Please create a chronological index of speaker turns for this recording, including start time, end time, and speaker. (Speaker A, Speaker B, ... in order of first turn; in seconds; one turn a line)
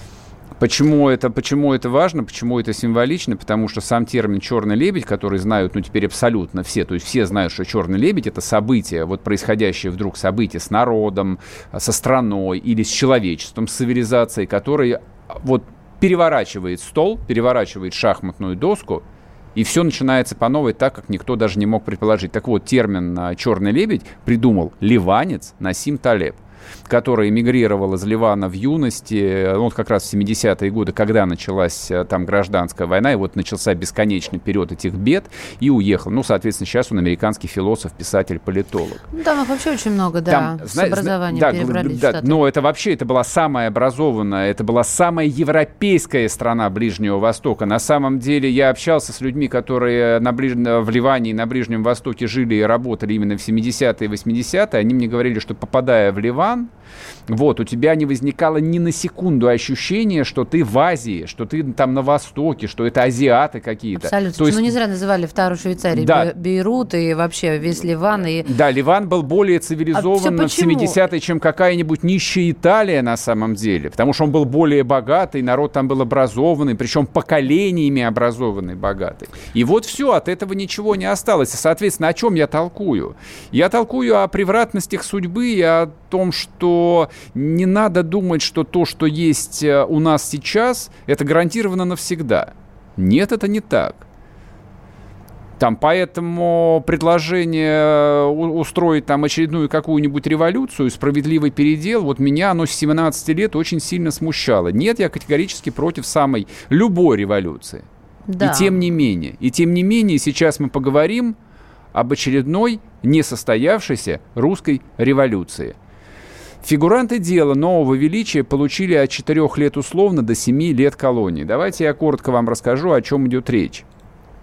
Speaker A: 0.6-19.0
Speaker A: 19.6-39.0
Speaker B: 39.1-42.4
Speaker A: 40.3-56.7
Speaker A: 57.3-64.7
Speaker B: 64.0-68.5
Speaker A: 65.9-66.3
Speaker A: 68.5-94.0
Speaker B: 69.9-71.0
Speaker A: 95.6-107.8
Speaker B: 108.3-108.7
Speaker A: 108.4-111.4
Speaker A: 111.9-115.8
Speaker A: 116.6-123.8